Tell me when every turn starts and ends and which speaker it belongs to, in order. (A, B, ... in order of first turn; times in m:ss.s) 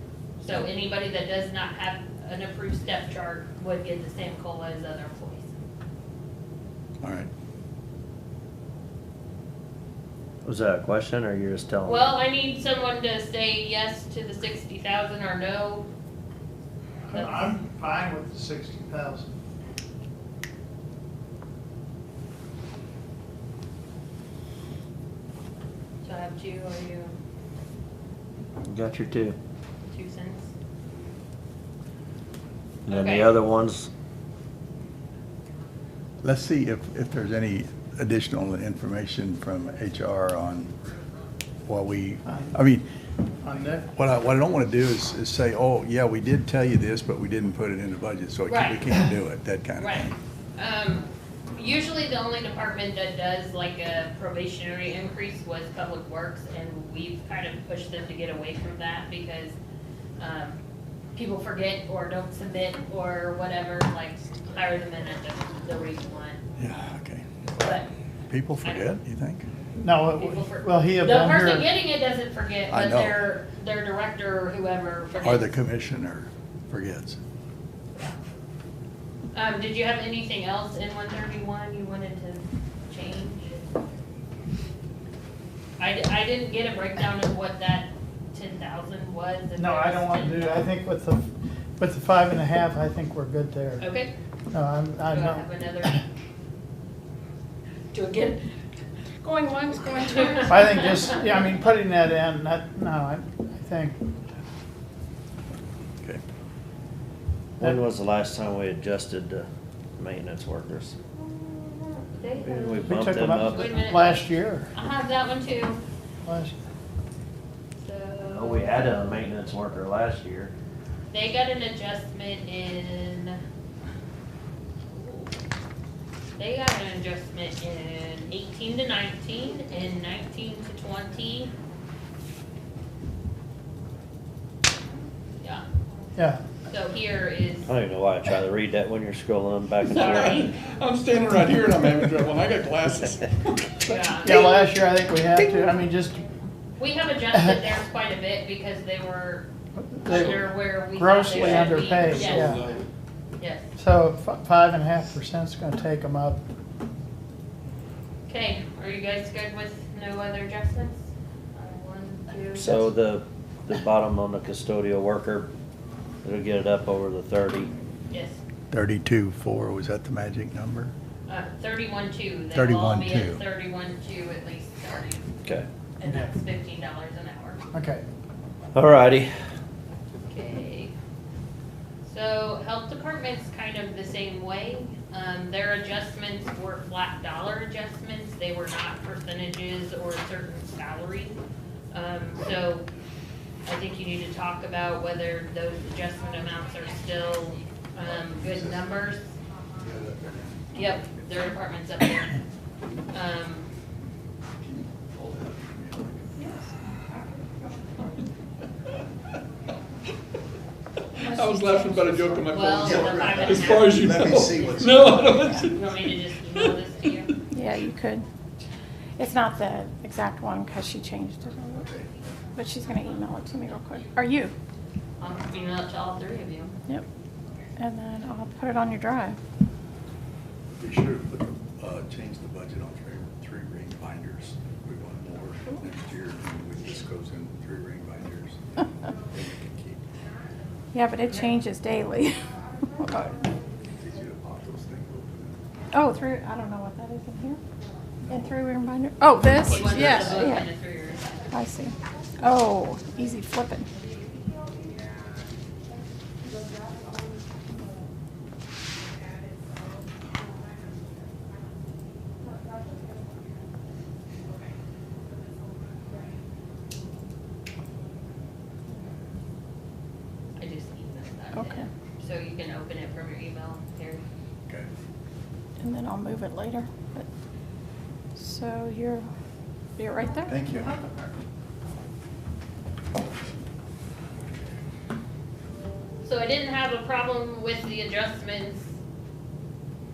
0:00.4-0:05.6 A
0:07.0-0:07.3 B
0:10.4-0:12.1 C
0:11.8-0:15.9 A
0:17.1-0:19.3 D
0:17.1-0:17.6 A
0:26.0-0:27.1 A
0:28.6-0:29.4 C
0:29.9-0:30.5 A
0:32.9-0:33.9 C
0:32.9-0:33.4 A
0:36.2-0:40.7 B
0:41.7-0:42.8 B
0:42.2-0:42.5 D
0:43.4-0:43.9 D
0:43.9-0:50.1 B
0:48.5-0:48.9 A
0:49.8-0:59.6 A
1:00.2-1:00.6 A
1:01.1-1:06.4 A
1:06.6-1:07.7 B
1:07.6-1:07.9 A
1:08.3-1:09.5 B
1:08.6-1:09.0 A
1:09.8-1:11.7 D
1:10.2-1:15.5 A
1:12.7-1:13.2 B
1:15.2-1:17.2 B
1:19.3-1:23.7 A
1:25.8-1:30.7 A
1:29.6-1:33.9 D
1:33.8-1:34.1 A
1:34.5-1:35.5 D
1:35.1-1:36.0 A
1:37.9-1:38.4 A
1:39.2-1:40.8 E
1:39.9-1:41.2 A
1:40.4-1:44.0 D
1:47.6-1:51.0 C
1:51.2-1:55.8 A
1:52.4-1:53.7 C
1:52.8-1:54.7 D
1:56.2-1:56.6 D
1:57.8-1:59.2 A
1:58.2-2:00.5 C
2:01.1-2:03.4 A
2:04.9-2:05.3 A
2:06.4-2:11.5 A
2:16.2-2:16.4 D
2:16.7-2:17.7 A
2:17.6-2:20.4 C
2:19.9-2:20.6 A
2:19.9-2:24.2 F
2:23.8-2:24.8 A
2:24.2-2:26.2 D
2:26.8-2:29.5 A
2:29.8-2:32.7 D
2:30.0-2:32.5 A
2:30.1-2:30.4 F
2:31.3-2:32.8 F
2:33.4-2:33.7 A
2:33.8-2:36.4 D
2:38.3-2:42.9 A
2:42.6-2:45.5 C
2:46.2-2:47.7 C
2:48.1-2:48.4 A
2:48.7-2:50.9 B
2:51.3-2:55.2 A
2:52.5-2:53.4 B
2:56.0-2:57.6 A
2:56.0-2:56.3 D
2:57.7-2:58.0 D
2:58.7-2:59.3 C
3:00.3-3:00.9 A
3:02.0-3:11.4 A
3:11.9-3:12.9 A
3:13.6-3:19.3 A
3:18.4-3:18.9 B
3:19.8-3:21.2 B
3:20.7-3:22.4 A
3:23.1-3:23.6 A
3:24.6-3:26.3 B
3:26.4-3:26.7 E
3:31.2-3:32.6 E
3:31.2-3:36.0 F
3:32.5-3:37.4 A
3:32.8-3:35.6 B
3:35.4-3:35.7 E
3:37.5-3:38.2 E
3:39.2-3:41.9 E
3:41.8-3:42.1 B
3:42.5-3:44.5 E
3:45.2-3:46.8 A
3:47.8-3:49.4 E
3:50.8-3:58.6 B
3:59.3-4:00.0 B
4:00.9-4:03.4 E
4:01.3-4:01.5 A
4:03.8-4:05.6 B
4:05.9-4:07.6 E
4:08.3-4:10.7 E
4:09.5-4:11.5 A
4:09.9-4:10.4 B
4:11.5-4:13.9 E
4:30.6-4:34.2 A
4:31.5-4:31.9 E
4:35.8-4:37.3 E
4:38.4-4:39.3 E
4:40.0-4:41.2 E
4:40.5-4:40.9 B
4:46.2-4:48.9 A